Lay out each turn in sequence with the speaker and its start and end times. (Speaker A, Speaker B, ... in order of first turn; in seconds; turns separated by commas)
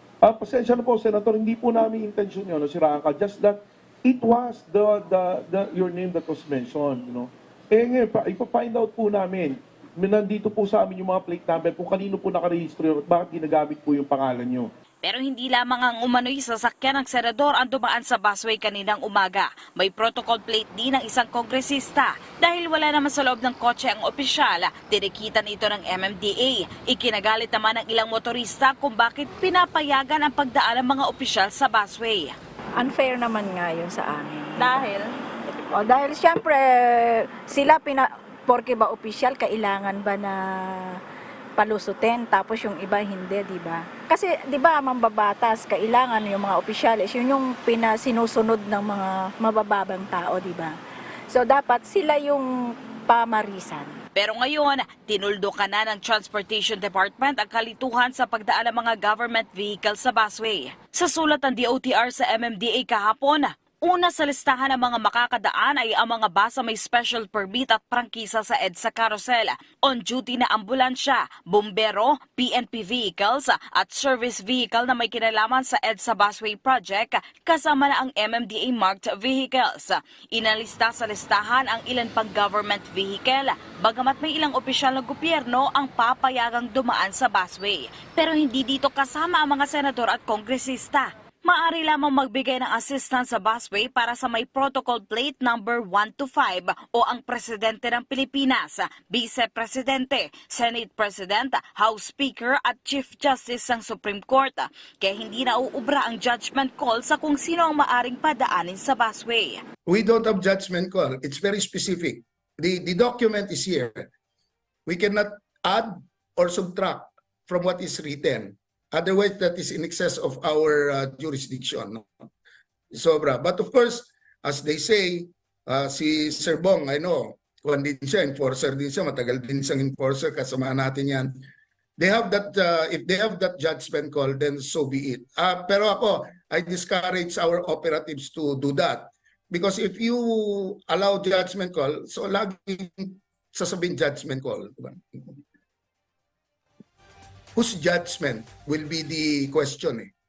Speaker A: 0.2-14.7, Speaker B: 15.0-32.3, Speaker C: 32.8-34.9, Speaker B: 34.6-35.1, Speaker C: 35.6-40.3, Speaker C: 41.6-50.7, Speaker C: 51.3-52.5, Speaker C: 53.1-54.0, Speaker B: 54.1-109.6, Speaker D: 109.9-114.1, Speaker D: 114.8-122.1, Speaker D: 122.9-131.4, Speaker D: 132.0-145.3, Speaker D: 147.5-150.1